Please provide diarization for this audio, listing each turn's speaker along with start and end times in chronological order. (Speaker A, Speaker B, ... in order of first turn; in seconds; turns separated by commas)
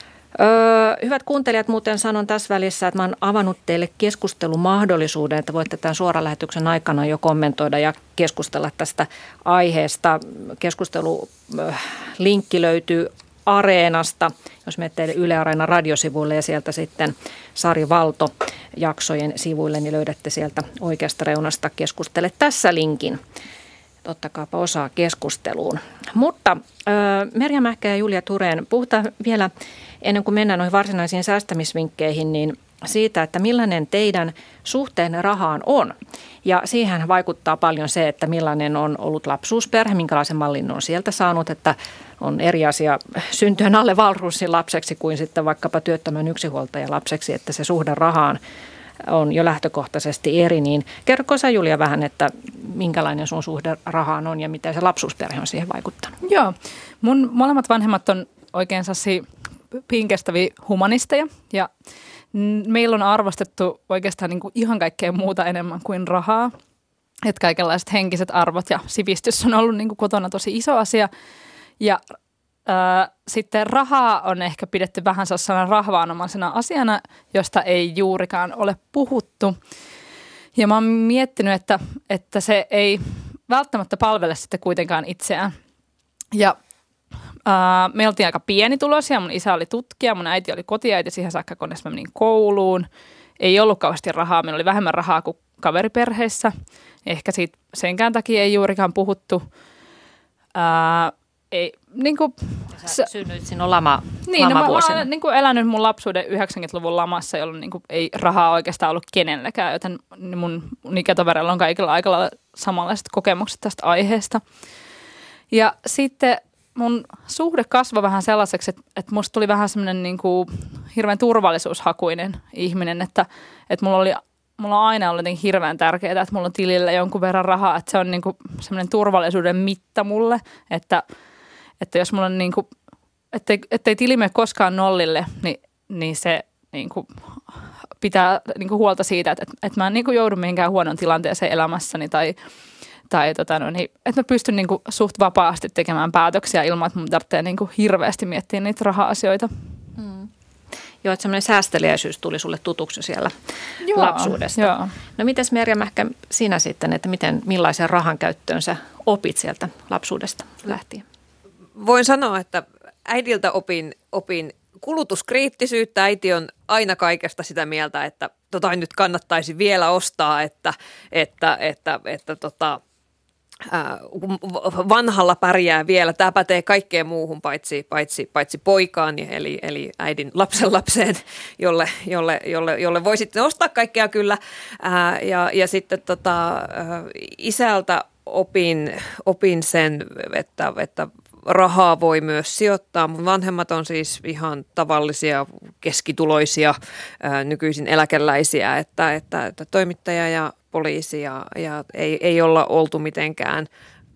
Speaker A: 0.3-23.2, Speaker A: 24.0-29.5, Speaker A: 30.0-48.4, Speaker A: 49.0-56.1, Speaker B: 56.2-59.2, Speaker B: 59.8-61.7, Speaker B: 62.3-66.5, Speaker B: 67.2-71.1, Speaker B: 72.7-79.6, Speaker B: 80.5-85.5, Speaker B: 87.5-92.9, Speaker B: 93.4-96.5, Speaker B: 97.0-99.4, Speaker B: 100.5-103.1, Speaker A: 102.7-105.1, Speaker B: 104.2-114.4, Speaker B: 115.5-131.0, Speaker B: 131.8-132.7, Speaker B: 133.3-142.3, Speaker B: 143.1-149.5, Speaker A: 150.0-150.3, Speaker A: 151.0-153.3, Speaker B: 153.8-154.9, Speaker A: 153.9-161.0, Speaker C: 161.8-172.8, Speaker C: 173.7-203.7